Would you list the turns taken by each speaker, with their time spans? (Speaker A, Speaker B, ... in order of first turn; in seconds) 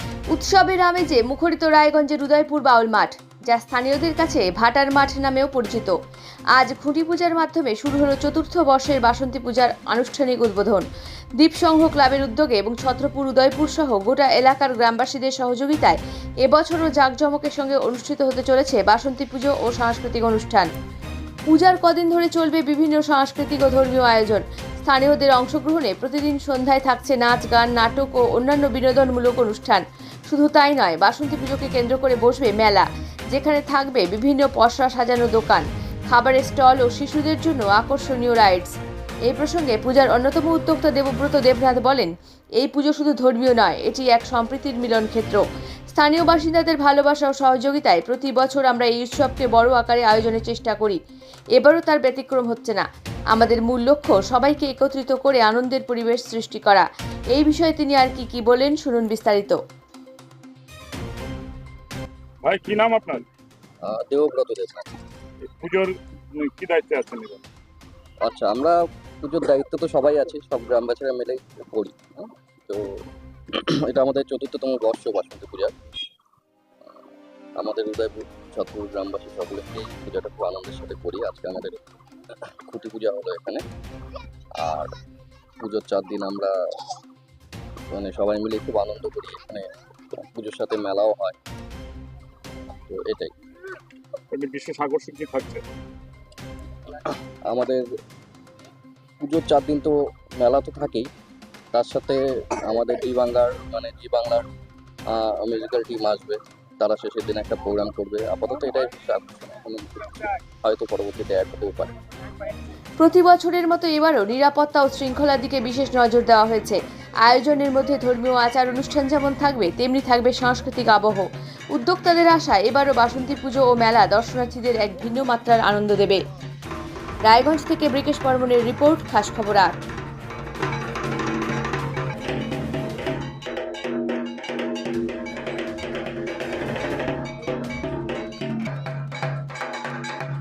Speaker A: 0.3-5.9, 6.5-10.8, 11.4-20.7, 21.5-38.8, 39.3-51.0, 51.6-59.6, 113.0-126.2, 127.2-129.8
Speaker B: 62.4-63.2, 65.4-67.4, 94.3-95.6
Speaker C: 63.8-64.9, 68.2-75.7, 77.6-81.8, 82.6-83.6, 84.5-84.9, 85.6-86.9, 87.9-91.4, 92.9-93.3, 97.0-97.8, 99.2-101.1, 101.7-104.5, 105.1-111.9